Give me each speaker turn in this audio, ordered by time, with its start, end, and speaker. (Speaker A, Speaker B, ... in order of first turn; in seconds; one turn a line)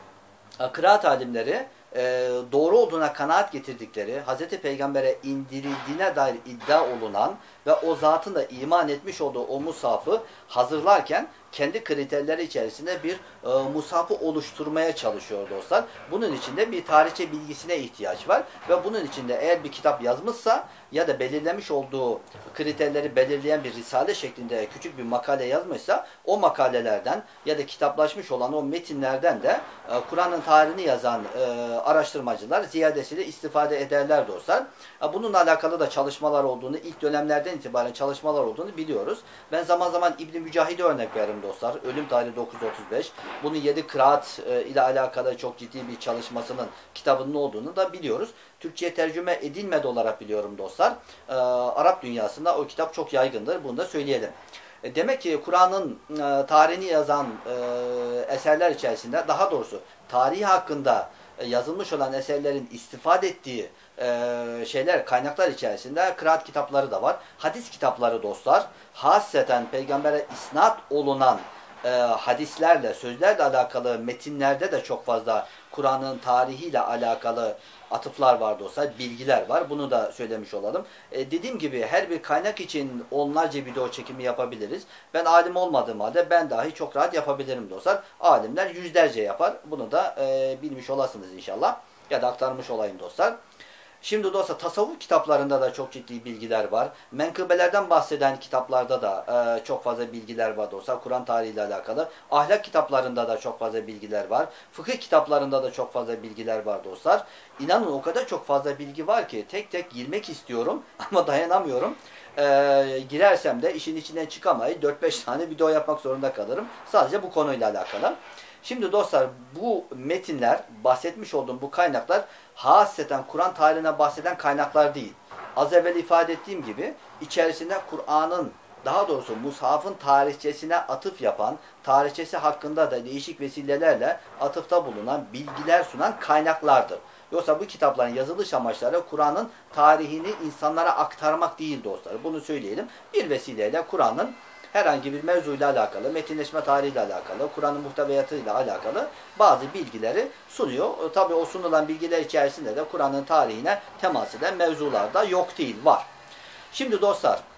Speaker A: 0.6-93.3
Speaker A: 94.0-156.1
Speaker A: 156.7-157.4